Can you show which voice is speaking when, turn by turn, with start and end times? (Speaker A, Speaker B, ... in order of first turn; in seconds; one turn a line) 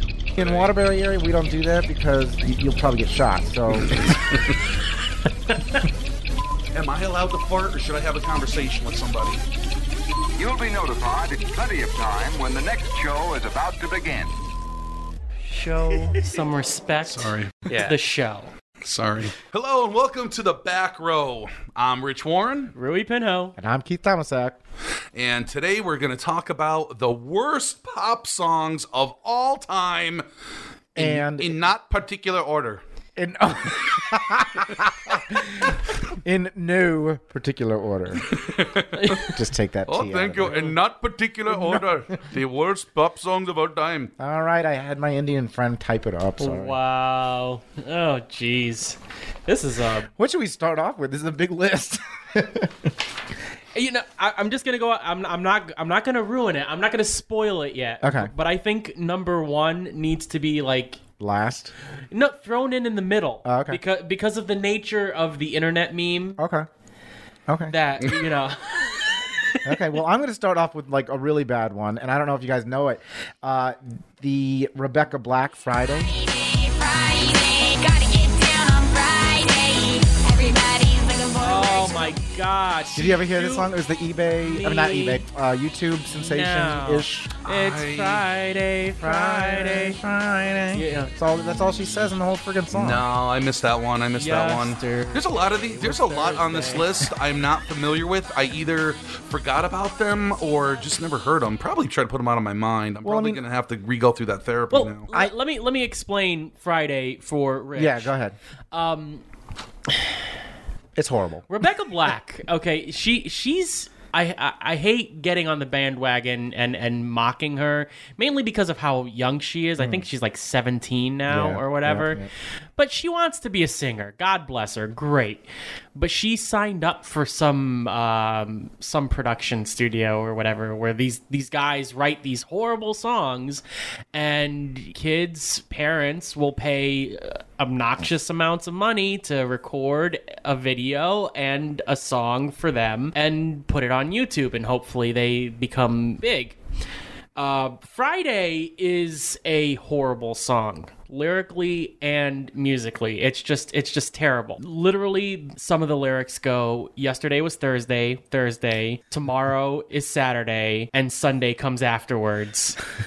Speaker A: 0.4-4.1
Speaker B: 0.4-0.7
Speaker B: 3.8-4.5
Speaker C: 5.5-5.8
Speaker B: 6.7-9.4
Speaker D: 10.3-14.3
Speaker C: 15.4-18.5
Speaker B: 17.1-17.8
Speaker B: 18.8-22.7
Speaker C: 22.7-23.6
Speaker A: 23.6-24.6
Speaker B: 25.1-30.2
Speaker B: 30.9-32.8
Speaker A: 30.9-31.7
Speaker A: 33.1-38.3
Speaker B: 38.2-39.3
Speaker C: 39.0-39.4
Speaker A: 39.3-40.7
Speaker B: 39.9-44.1
Speaker A: 41.5-41.8
Speaker A: 44.2-46.8
Speaker C: 46.4-50.1
Speaker A: 50.2-52.9
Speaker C: 53.7-61.0
Speaker A: 58.0-58.3
Speaker A: 61.2-61.7
Speaker C: 62.1-66.4
Speaker A: 63.4-63.8
Speaker A: 66.4-66.7
Speaker A: 67.5-67.7
Speaker C: 67.7-70.0
Speaker A: 69.6-76.1
Speaker E: 76.0-82.2
Speaker C: 81.4-83.7
Speaker A: 82.9-87.3
Speaker C: 84.4-85.2
Speaker C: 86.2-90.0
Speaker B: 87.4-88.2
Speaker A: 89.0-93.0
Speaker C: 90.7-91.1
Speaker B: 92.7-105.1
Speaker C: 94.2-96.8
Speaker A: 103.0-103.4
Speaker C: 104.7-108.1
Speaker A: 107.7-108.3
Speaker C: 108.7-109.2
Speaker A: 110.9-111.4
Speaker C: 111.5-122.2
Speaker A: 119.8-120.0
Speaker A: 121.3-122.3
Speaker C: 122.8-133.6
Speaker C: 134.1-146.6
Speaker C: 147.3-162.8